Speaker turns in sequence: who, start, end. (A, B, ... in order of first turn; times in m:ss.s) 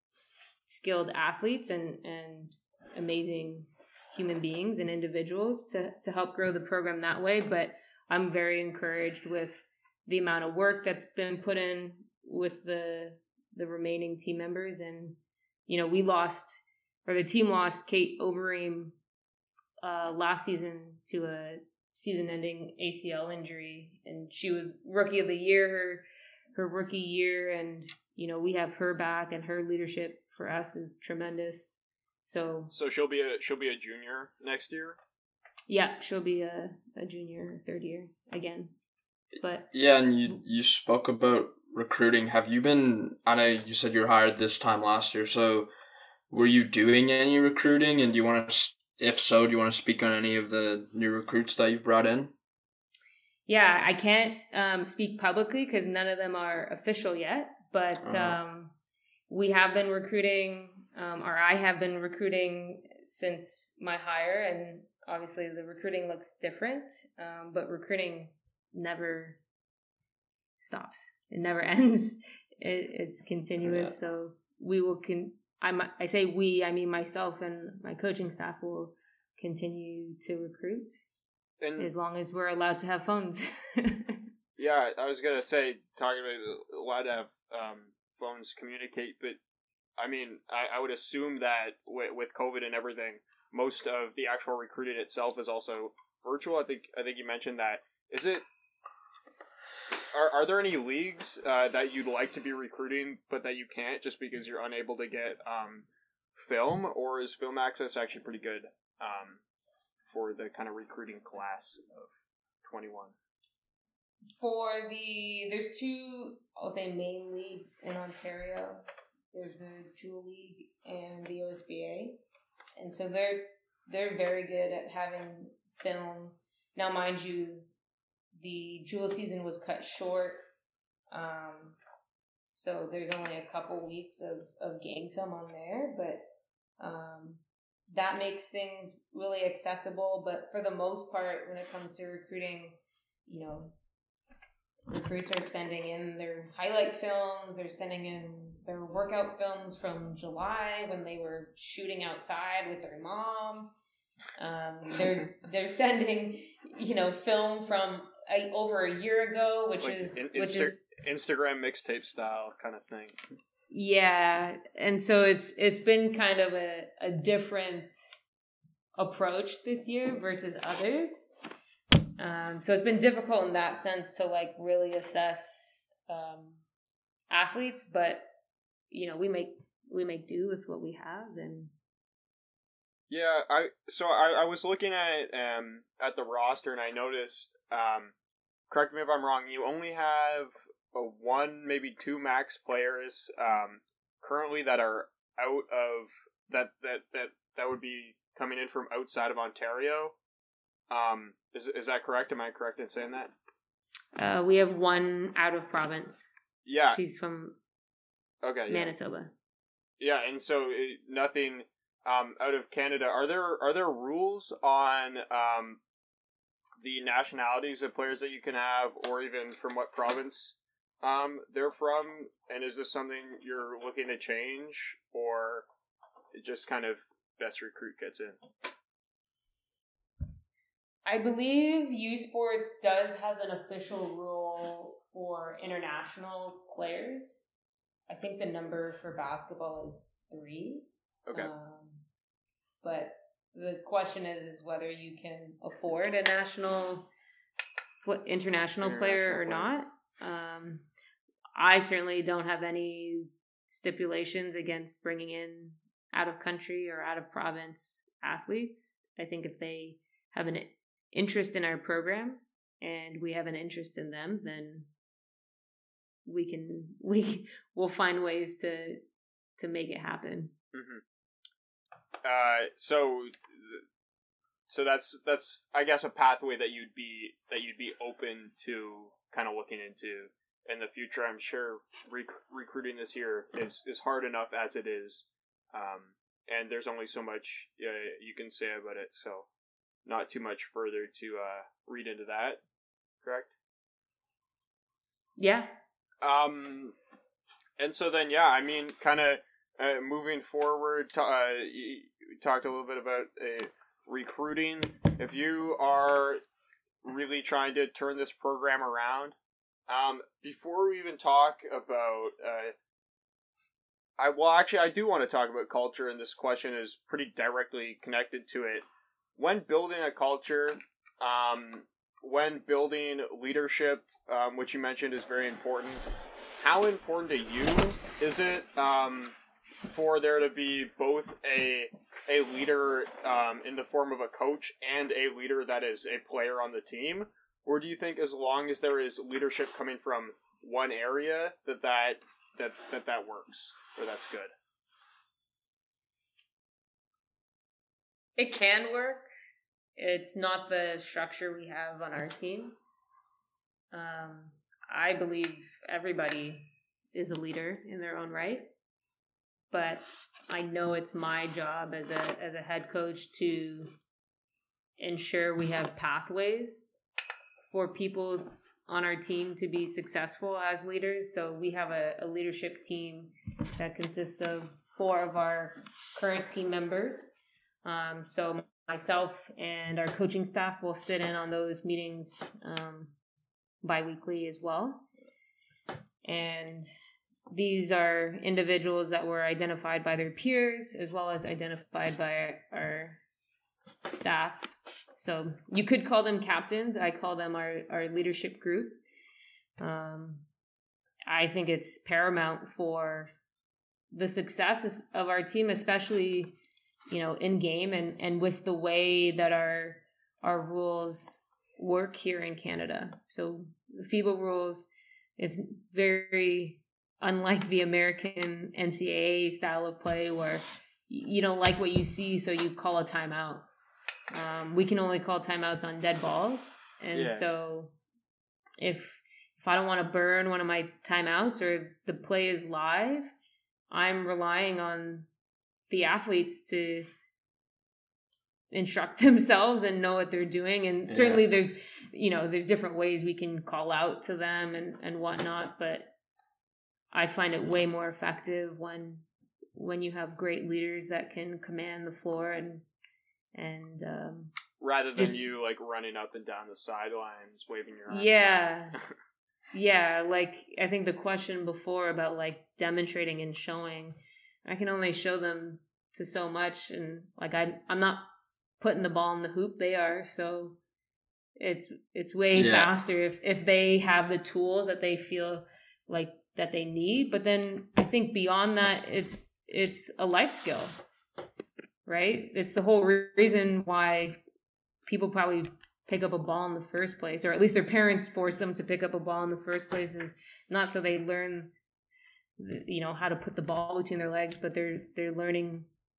0:00.6-0:19.0 A
0:19.8-0:26.0 A
0:26.5-0:32.7 A
0:32.7-0:35.0 B
0:35.7-0:38.7 A
0:39.4-0:39.7 A
0:39.7-0:45.7 C
0:46.3-0:52.3 C
0:53.5-0:58.7 A
0:58.0-0:58.4 C
0:59.3-1:09.4 A
1:10.6-1:21.0 A
1:13.6-1:13.9 C
1:21.6-1:21.9 B
1:21.8-1:24.2 A
1:24.6-1:29.4 B
1:30.0-1:38.4 B
1:40.1-1:49.4 B
1:50.1-1:52.1 B
1:52.6-1:53.1 B
1:54.4-2:02.2 A
2:02.8-2:07.6 A
2:08.4-2:10.4 A
2:11.1-2:11.8 A
2:12.5-2:16.2 A
2:16.8-2:23.7 A
2:24.9-2:33.7 A
2:34.4-2:40.8 A
2:39.8-2:43.1 B
2:43.7-2:47.9 A
2:49.0-2:51.3 A
2:52.2-2:56.6 A
2:57.3-2:58.2 A
2:58.9-3:01.7 A
3:03.1-3:08.1 B
3:08.7-3:20.1 B
3:20.9-3:23.3 B
3:24.2-3:26.3 A
3:26.6-3:27.0 B
3:26.9-3:27.6 A
3:28.4-3:28.9 B
3:28.7-3:29.3 A
3:30.0-3:35.8 B
3:36.8-3:45.6 B
3:46.3-3:48.4 B
3:51.0-3:57.4 A
3:58.1-4:02.0 A
4:01.3-4:01.5 B
4:02.8-4:07.1 A
4:08.0-4:10.8 A
4:08.8-4:09.7 B
4:11.6-4:24.9 A
4:26.2-4:29.0 A
4:29.6-4:30.5 A
4:30.7-4:31.0 B
4:32.2-4:33.8 B
4:34.7-4:49.5 B
4:50.0-4:52.6 B
4:53.2-4:53.5 B
4:55.4-4:55.7 A
4:56.2-4:57.0 B
4:57.8-5:06.4 B
5:07.0-5:09.3 B
5:09.9-5:12.7 B
5:14.2-5:18.8 B
5:19.4-5:26.0 B
5:26.6-5:44.5 B
5:48.4-5:49.2 A
5:50.0-5:52.8 A
5:53.9-5:58.7 A
5:59.7-6:03.9 A
6:05.0-6:06.9 A
6:07.7-6:17.3 A
6:17.8-6:23.1 A
6:23.8-6:25.0 A
6:26.2-6:26.8 A
6:27.5-6:33.2 A
6:34.0-6:39.0 A
6:39.8-6:40.4 A
6:41.3-6:43.3 A
6:44.1-6:46.6 A
6:47.1-7:03.7 A
7:04.3-7:07.9 A
7:07.1-7:07.5 B
7:08.8-7:13.3 A
7:13.9-7:15.3 A
7:15.9-7:17.1 A
7:18.7-7:26.1 A
7:21.1-7:21.4 C
7:27.1-7:32.8 A
7:33.5-7:34.5 A
7:34.8-7:39.0 B
7:38.1-7:39.0 A
7:39.7-7:48.3 A
7:48.8-7:50.8 A
7:51.6-8:00.9 A
7:52.5-7:52.9 C
8:02.0-8:04.4 A
8:05.0-8:11.7 A
8:12.6-8:15.9 A